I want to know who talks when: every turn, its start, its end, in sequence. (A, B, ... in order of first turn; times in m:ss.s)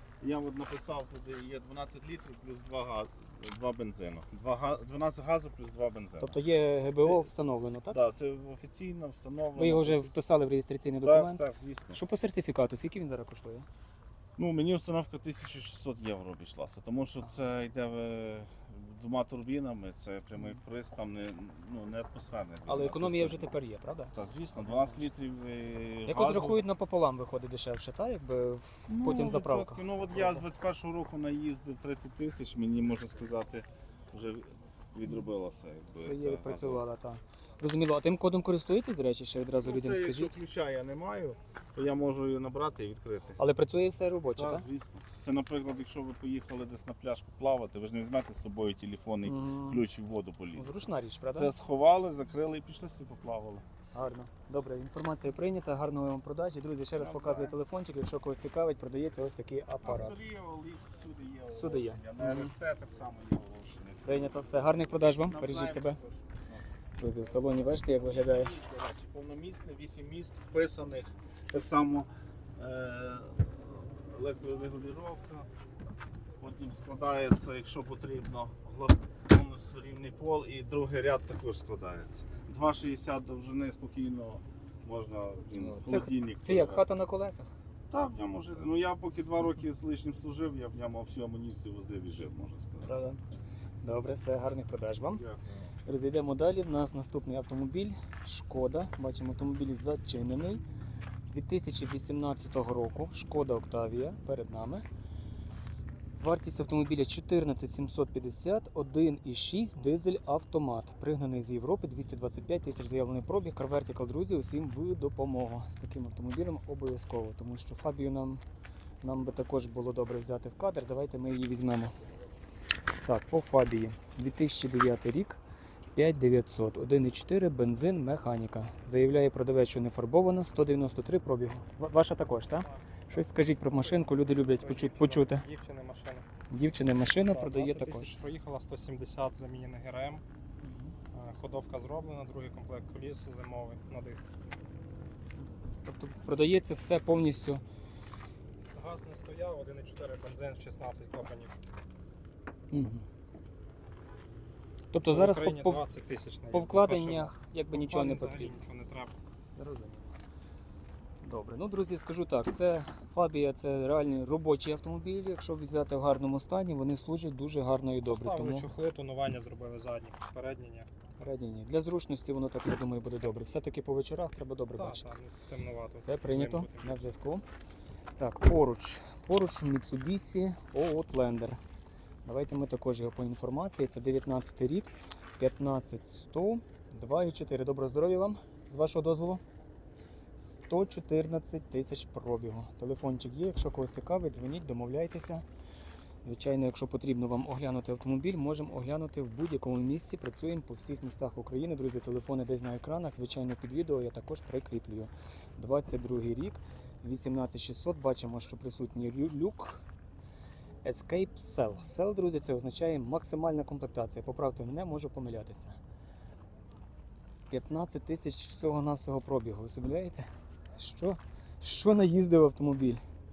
0:00.2-0:06.4 A
0:06.2-0:08.0 B
0:07.0-0:07.3 A
0:07.9-0:10.2 A
0:09.6-0:11.4 B
0:11.0-0:12.0 A
0:11.9-0:13.7 B
0:14.4-0:23.5 A
0:22.7-0:25.0 B
0:24.1-0:26.6 A
0:26.0-0:30.4 B
0:28.9-0:36.8 A
0:36.0-0:40.3 B
0:39.6-0:43.4 A
0:43.4-0:44.6 B
0:44.4-0:50.7 A
0:49.2-0:49.8 B
0:50.5-0:51.5 B
0:51.3-0:53.6 A
0:53.9-1:00.2 B
0:57.0-0:57.6 A
0:59.8-1:04.4 A
1:01.5-1:02.5 B
1:04.0-1:06.0 B
1:05.2-1:06.6 A
1:07.0-1:08.6 B
1:08.0-1:15.5 A
1:16.4-1:26.9 A
1:25.5-1:27.5 B
1:27.9-1:33.0 A
1:32.8-1:33.2 B
1:33.8-1:35.2 B
1:35.2-1:35.7 A
1:35.8-1:40.6 B
1:41.3-1:44.8 B
1:46.1-1:58.4 B
1:59.0-2:01.9 B
2:03.0-2:05.4 B
2:05.9-2:15.4 B
2:13.6-2:16.2 C
2:16.5-2:18.1 B
2:17.2-2:20.2 C
2:20.6-2:20.9 B
2:21.1-2:24.3 C
2:25.8-2:27.6 B
2:28.7-2:31.5 C
2:32.7-2:33.0 B
2:34.9-2:35.8 B
2:35.0-2:39.1 C
2:36.5-2:38.6 B
2:39.6-2:40.1 B
2:41.2-2:48.7 B
2:48.1-2:50.9 C
2:51.2-2:55.1 B
2:54.8-2:57.1 C
2:56.0-2:57.4 B
2:58.2-3:01.6 B
3:02.2-3:09.4 B
3:10.4-3:15.4 B
3:16.2-3:29.8 B
3:30.8-3:35.8 B
3:37.5-3:40.2 B
3:40.8-3:43.0 B